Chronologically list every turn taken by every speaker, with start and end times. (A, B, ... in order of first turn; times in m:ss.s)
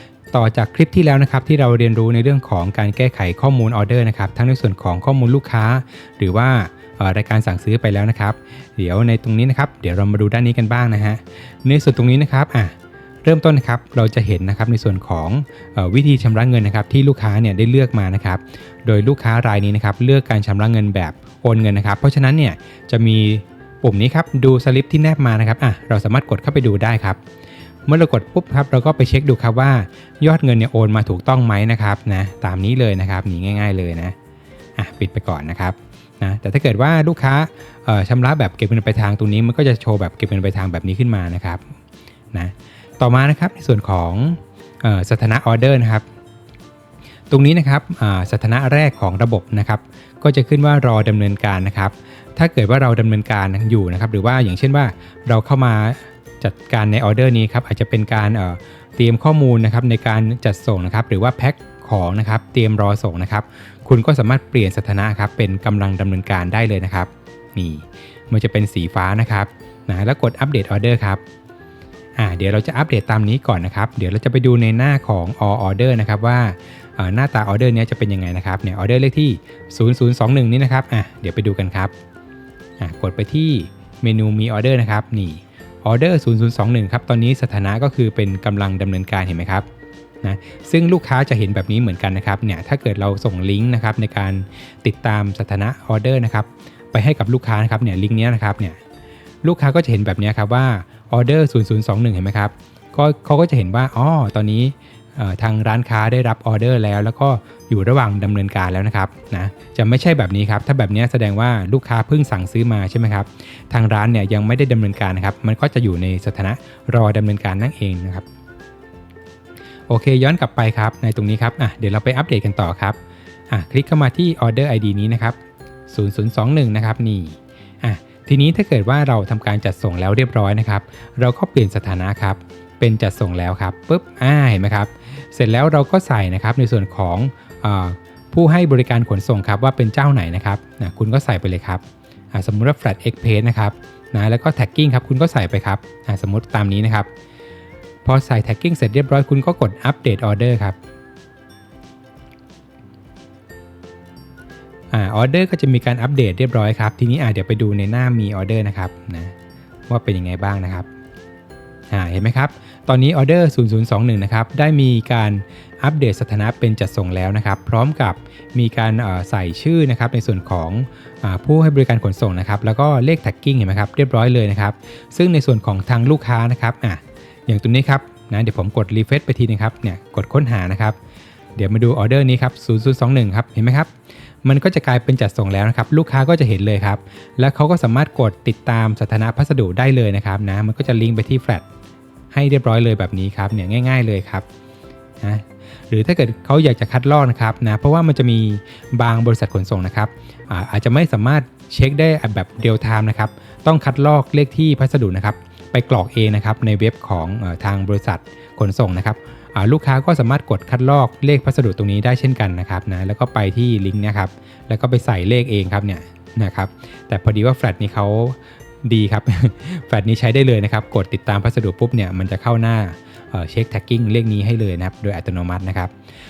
0:00.3-0:27.2 A
0:27.9-0:34.2 A
0:34.8-0:41.6 A
0:42.3-0:46.1 A
0:47.3-1:11.2 A
1:12.2-1:21.9 A
1:22.8-1:29.7 A
1:30.2-1:38.8 A
1:39.4-1:58.2 A
1:59.9-2:03.0 A
2:03.5-2:05.4 A
2:05.9-2:27.1 A
2:28.0-2:30.8 A
2:34.9-2:39.3 A
2:39.9-2:40.9 A
2:41.9-3:01.0 A
3:01.6-3:03.9 A
3:04.4-3:11.7 A
3:12.3-3:14.5 A
3:15.2-3:45.9 A